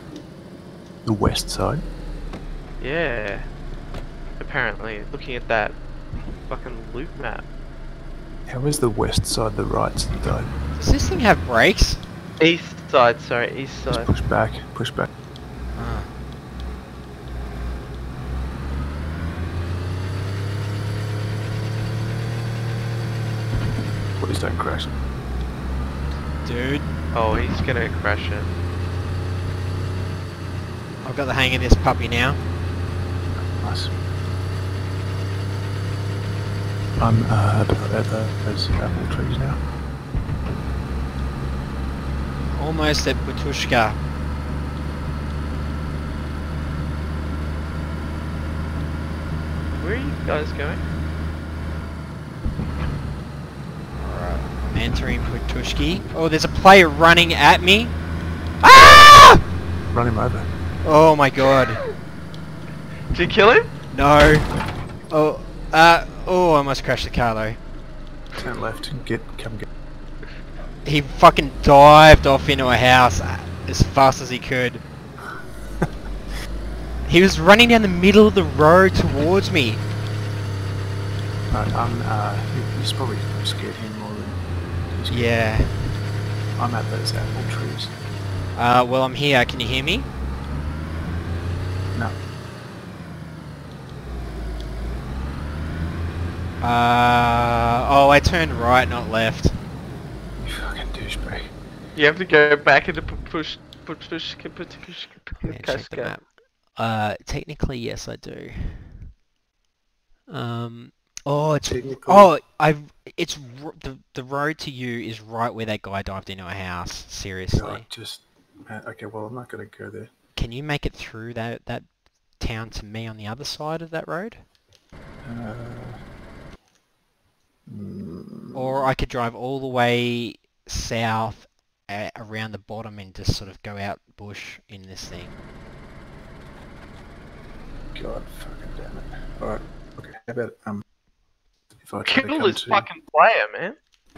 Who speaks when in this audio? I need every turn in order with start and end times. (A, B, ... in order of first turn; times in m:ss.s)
0:01.0-0:01.8 A
0:02.8-0:03.4 B
0:04.4-0:05.8 B
0:06.5-0:07.5 B
0:08.5-0:10.5 A
0:10.8-0:12.0 C
0:12.4-0:14.1 B
0:13.9-0:15.1 A
0:15.8-0:16.1 C
0:24.2-0:25.0 A
0:26.4-0:26.9 C
0:27.1-0:28.5 B
0:31.0-0:32.4 C
0:33.4-0:33.9 A
0:37.0-0:39.6 A
0:42.5-0:44.0 C
0:49.7-0:50.8 B
0:54.0-0:57.9 C
0:58.6-0:59.4 C
0:59.9-1:00.5 A
1:00.8-1:01.8 C
1:03.1-1:03.7 B
1:03.9-1:04.5 C
1:05.1-1:07.6 C
1:08.4-1:09.7 A
1:10.8-1:14.8 C
1:17.1-1:19.8 C
1:21.5-1:25.4 A
1:25.1-1:25.7 C
1:26.6-1:27.9 A
1:28.6-1:30.1 C
1:36.6-1:39.6 C
1:40.4-1:41.5 A
1:42.0-1:46.2 B
1:45.4-1:49.1 C
1:50.3-1:57.9 C
1:51.6-1:52.3 A
1:57.5-2:00.1 A
2:00.4-2:04.4 C
2:05.2-2:06.0 A
2:07.7-2:08.9 A
2:08.5-2:15.4 C
2:17.9-2:20.8 A
2:21.8-2:22.9 A
2:22.0-2:23.8 B